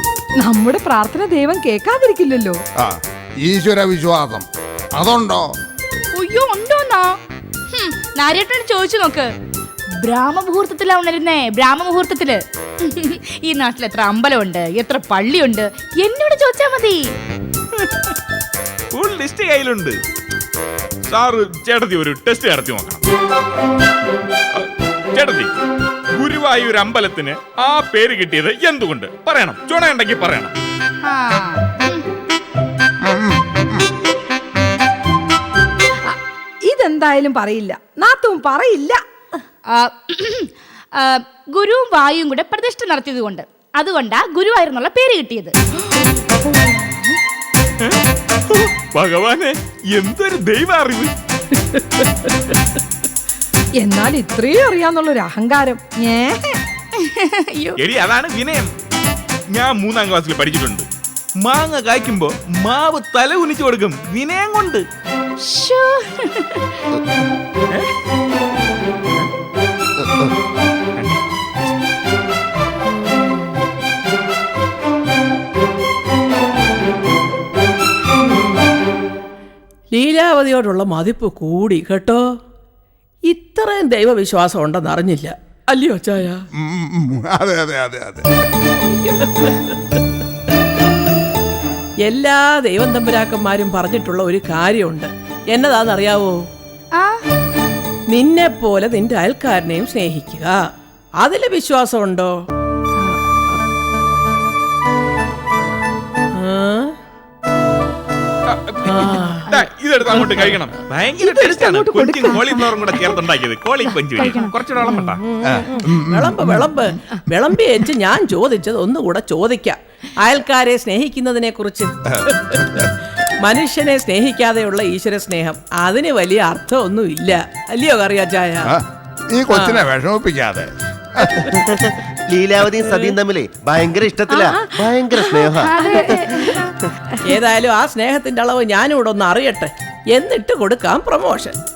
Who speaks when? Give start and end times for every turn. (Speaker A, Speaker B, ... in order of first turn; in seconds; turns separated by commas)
Speaker A: 0.4-2.6, Speaker B: 2.8-4.5, Speaker B: 5.0-5.5, Speaker C: 6.2-7.2, Speaker C: 7.7-9.3, Speaker C: 10.0-17.1, Speaker D: 17.8-18.1, Speaker D: 18.9-20.0, Speaker D: 21.1-23.0, Speaker D: 24.6-25.5, Speaker D: 26.2-30.5, Speaker C: 31.0-32.0, Speaker B: 33.0-33.9, Speaker A: 36.1-39.0, Speaker C: 39.7-45.5, Speaker A: 46.5-47.1, Speaker D: 47.8-51.1, Speaker A: 53.8-56.6, Speaker C: 57.0-57.8, Speaker D: 57.8-58.7, Speaker D: 59.5-60.9, Speaker D: 61.4-64.8, Speaker C: 65.4-66.8, Speaker E: 70.0-70.3, Speaker F: 79.9-82.2, Speaker F: 83.2-86.4, Speaker B: 86.6-88.2, Speaker F: 92.0-96.4, Speaker C: 97.0-97.3, Speaker F: 98.1-100.6, Speaker F: 101.2-102.3, Speaker F: 106.3-106.9, Speaker D: 108.5-115.2, Speaker F: 108.9-109.4, Speaker A: 111.2-112.6, Speaker A: 114.2-114.4, Speaker F: 114.9-122.8, Speaker B: 115.5-116.7, Speaker B: 122.2-122.9, Speaker F: 123.4-128.7, Speaker B: 128.7-131.4, Speaker E: 131.3-136.3, Speaker C: 135.6-136.7, Speaker A: 135.9-136.2, Speaker F: 137.2-141.6